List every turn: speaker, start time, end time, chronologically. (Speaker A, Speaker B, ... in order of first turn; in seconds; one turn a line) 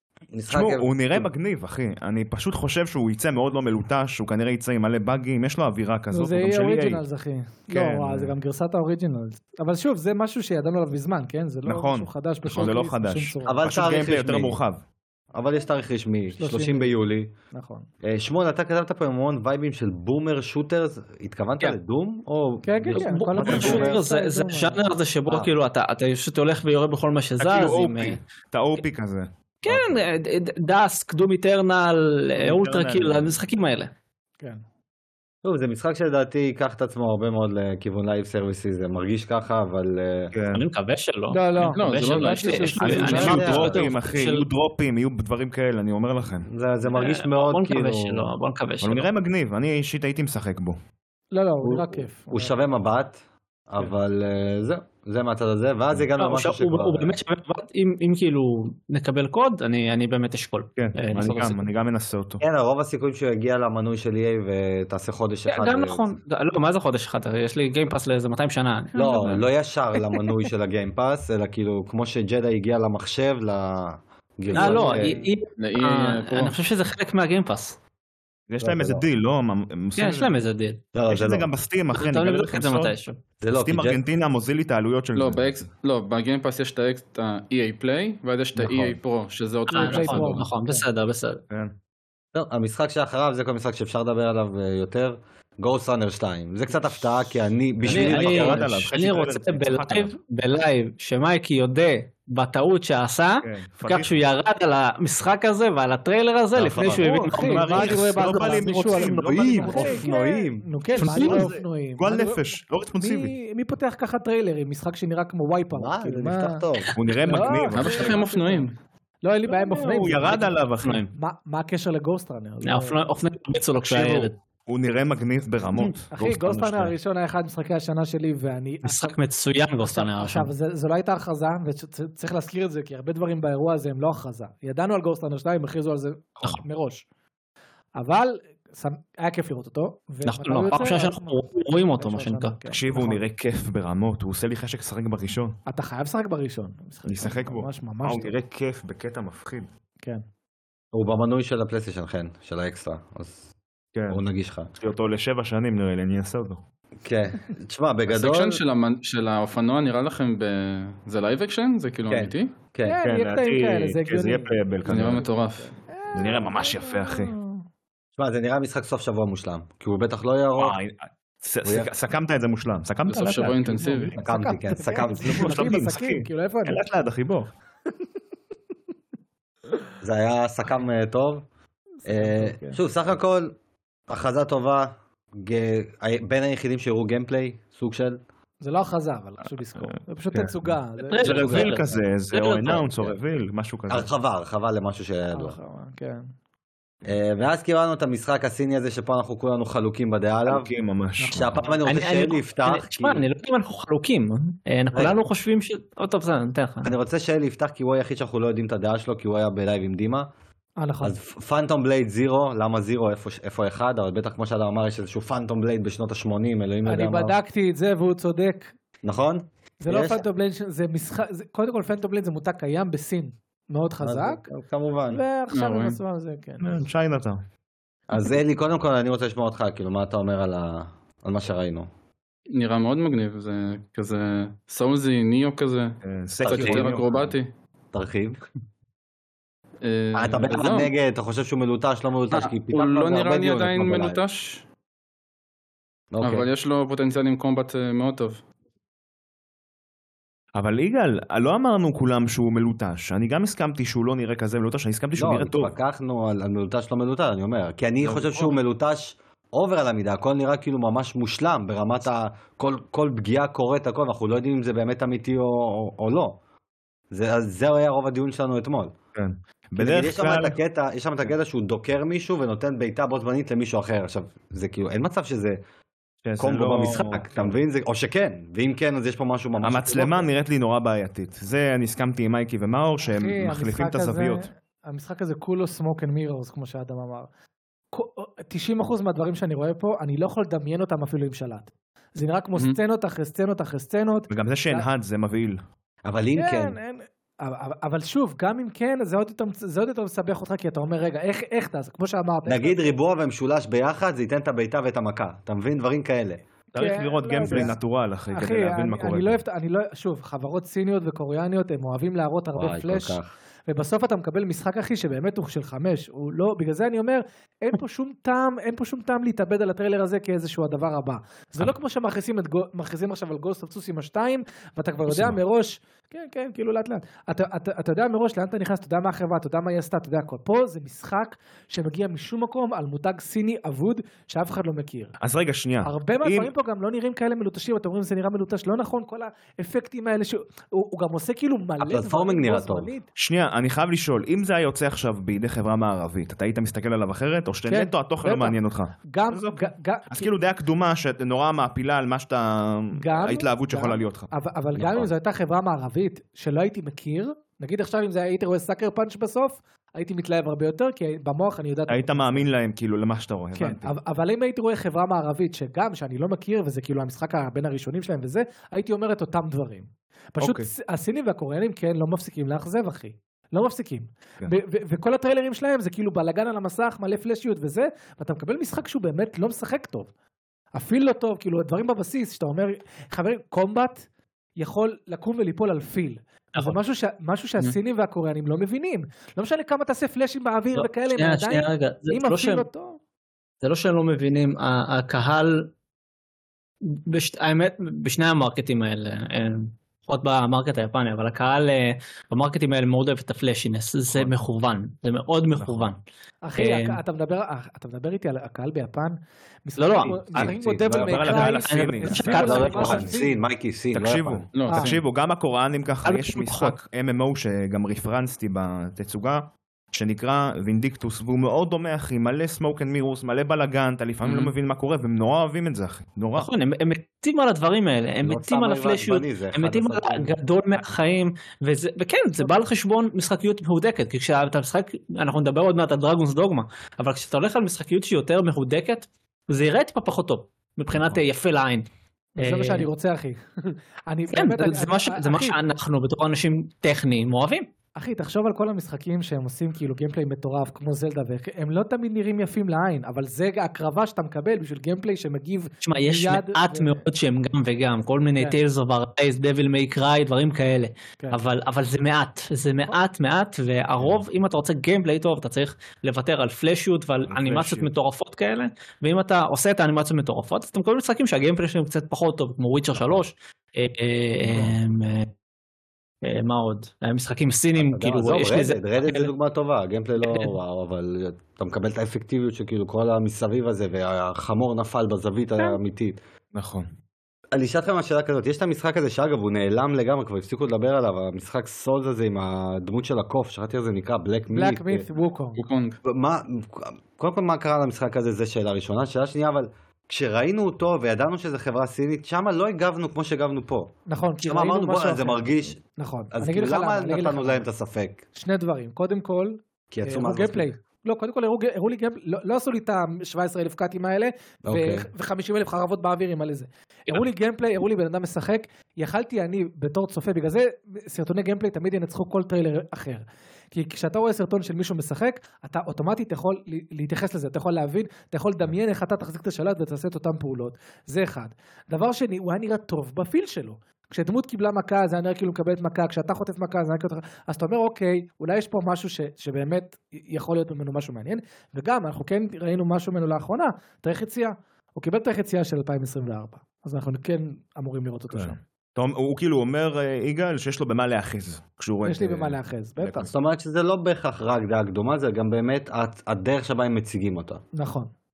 Speaker A: 0.3-1.3
Speaker B: 0.5-7.0
Speaker C: 6.1-13.6
Speaker B: 7.7-8.3
Speaker B: 11.7-14.8
Speaker A: 13.4-14.6
Speaker A: 15.3-17.3
Speaker C: 16.4-16.9
Speaker C: 17.5-17.9
Speaker A: 18.0-24.0
Speaker C: 22.6-24.8
Speaker D: 22.9-28.2
Speaker B: 23.4-23.9
Speaker B: 27.4-30.0
Speaker D: 29.6-33.9
Speaker B: 32.4-33.4
Speaker A: 35.4-40.3
Speaker B: 40.3-40.6
Speaker D: 40.5-44.5
Speaker C: 41.3-43.6
Speaker E: 41.6-42.8
Speaker B: 42.8-46.5
Speaker A: 42.9-43.9
Speaker A: 46.5-48.3
Speaker D: 46.8-49.1
Speaker B: 48.8-50.8
Speaker C: 51.3-52.5
Speaker A: 51.6-57.2
Speaker D: 56.2-61.6
Speaker B: 60.8-62.4
Speaker A: 62.4-66.2
Speaker D: 65.5-69.5
Speaker A: 69.0-75.2
Speaker D: 74.5-77.8
Speaker C: 74.5-75.3
Speaker E: 75.6-76.6
Speaker B: 78.5-80.3
Speaker A: 78.6-79.1
Speaker D: 80.0-80.8
Speaker A: 81.0-81.5
Speaker B: 81.1-82.9
Speaker D: 81.9-83.2
Speaker A: 83.4-84.0
Speaker B: 83.5-85.7
Speaker E: 85.2-90.5
Speaker A: 88.6-89.0
Speaker D: 89.7-91.4
Speaker C: 89.8-90.8
Speaker A: 92.3-98.7
Speaker B: 97.8-100.2
Speaker D: 97.9-110.1
Speaker B: 103.4-104.2
Speaker A: 106.5-107.2
Speaker C: 106.9-116.7
Speaker B: 107.3-110.1
Speaker A: 109.0-110.7
Speaker D: 111.0-111.5
Speaker B: 111.0-113.3
Speaker A: 115.7-116.9
Speaker B: 117.0-118.2
Speaker C: 117.2-120.5
Speaker E: 117.7-118.7
Speaker B: 119.5-121.1
Speaker D: 120.2-121.1
Speaker C: 121.1-123.1
Speaker D: 122.6-124.3
Speaker B: 123.8-126.9
Speaker C: 126.1-129.2
Speaker D: 128.8-130.5
Speaker C: 129.8-137.1
Speaker C: 138.0-141.4
Speaker D: 140.2-142.6
Speaker C: 142.0-143.2
Speaker B: 142.7-145.6
Speaker C: 145.7-148.3
Speaker B: 147.1-149.7
Speaker A: 150.9-153.4
Speaker B: 153.9-154.2
Speaker A: 154.1-154.7
Speaker B: 154.8-156.6
Speaker A: 157.0-158.6
Speaker E: 158.1-162.5
Speaker A: 162.1-163.0
Speaker C: 162.8-167.7
Speaker B: 163.0-165.3
Speaker E: 164.8-165.8
Speaker B: 166.1-167.3
Speaker A: 168.2-170.8
Speaker B: 170.6-174.1
Speaker A: 171.7-171.9
Speaker E: 173.1-174.2
Speaker C: 173.4-176.8
Speaker A: 174.2-175.7
Speaker B: 175.2-177.5
Speaker A: 180.0-181.4
Speaker C: 182.0-182.8
Speaker A: 182.1-183.6
Speaker A: 184.1-188.2
Speaker C: 188.6-191.7
Speaker B: 189.8-194.1
Speaker D: 191.0-192.8
Speaker A: 192.7-193.2
Speaker A: 193.9-195.6
Speaker C: 195.3-196.3
Speaker A: 197.1-200.7
Speaker B: 200.5-201.5
Speaker C: 201.2-201.8
Speaker A: 201.3-203.3
Speaker D: 201.8-206.9
Speaker A: 204.9-205.2
Speaker A: 206.8-210.3
Speaker C: 210.8-211.2
Speaker A: 211.0-217.4
Speaker C: 216.9-218.7
Speaker A: 219.0-220.2
Speaker C: 219.8-224.5
Speaker A: 224.0-225.2
Speaker C: 225.1-226.7
Speaker E: 225.5-226.0
Speaker B: 226.6-227.4
Speaker A: 228.1-231.9
Speaker E: 232.5-237.5
Speaker B: 236.0-237.3
Speaker A: 236.4-237.0
Speaker A: 237.9-238.4
Speaker E: 239.8-240.9
Speaker A: 240.2-244.2
Speaker E: 242.3-244.6
Speaker A: 246.1-246.5
Speaker E: 246.2-248.4
Speaker B: 250.6-255.7
Speaker A: 255.2-266.4
Speaker E: 258.0-258.6
Speaker A: 267.1-268.9
Speaker B: 269.1-270.6
Speaker A: 269.8-275.6
Speaker B: 276.2-277.6
Speaker A: 276.4-280.3
Speaker B: 279.6-284.5
Speaker C: 283.0-287.3
Speaker C: 287.9-294.9
Speaker B: 294.3-295.6
Speaker A: 296.1-296.8
Speaker C: 296.4-302.9
Speaker A: 302.5-306.5
Speaker B: 306.7-309.4
Speaker C: 306.8-335.2
Speaker A: 307.4-307.7
Speaker A: 312.6-313.3
Speaker B: 325.1-325.4
Speaker B: 335.2-336.5
Speaker C: 335.8-343.1
Speaker A: 341.8-342.9
Speaker B: 343.2-354.3
Speaker C: 347.7-350.3
Speaker C: 353.0-362.5
Speaker A: 354.8-355.1
Speaker B: 361.9-363.9
Speaker C: 363.6-380.1
Speaker B: 370.4-370.7
Speaker C: 380.8-384.0
Speaker C: 384.6-393.0
Speaker D: 390.8-392.7
Speaker D: 393.6-395.7
Speaker D: 396.9-406.0
Speaker B: 404.1-404.4
Speaker B: 405.6-405.9
Speaker C: 406.4-413.4
Speaker D: 406.6-407.0
Speaker D: 409.8-410.3
Speaker B: 410.1-413.2
Speaker A: 410.4-411.3
Speaker D: 411.2-413.1
Speaker A: 412.3-414.4
Speaker B: 413.9-426.5
Speaker E: 414.5-415.0
Speaker C: 414.7-415.0
Speaker D: 416.0-416.8
Speaker E: 424.3-424.5
Speaker D: 426.4-442.9
Speaker A: 428.2-430.4
Speaker B: 440.9-441.2
Speaker C: 442.4-445.6
Speaker D: 444.3-447.7
Speaker C: 448.0-457.0
Speaker D: 455.8-475.3
Speaker B: 467.3-467.9
Speaker B: 474.5-474.8
Speaker D: 476.2-479.3
Speaker A: 477.8-486.2
Speaker D: 480.2-480.5
Speaker B: 486.6-486.9
Speaker A: 487.5-495.1
Speaker C: 494.5-495.7
Speaker E: 495.6-496.0
Speaker A: 496.0-505.8
Speaker C: 504.1-507.6
Speaker A: 506.3-508.2
Speaker C: 508.4-548.6
Speaker A: 509.9-510.7
Speaker A: 514.6-515.1
Speaker B: 548.3-553.3
Speaker C: 552.0-553.3
Speaker A: 553.2-557.6
Speaker C: 557.8-558.1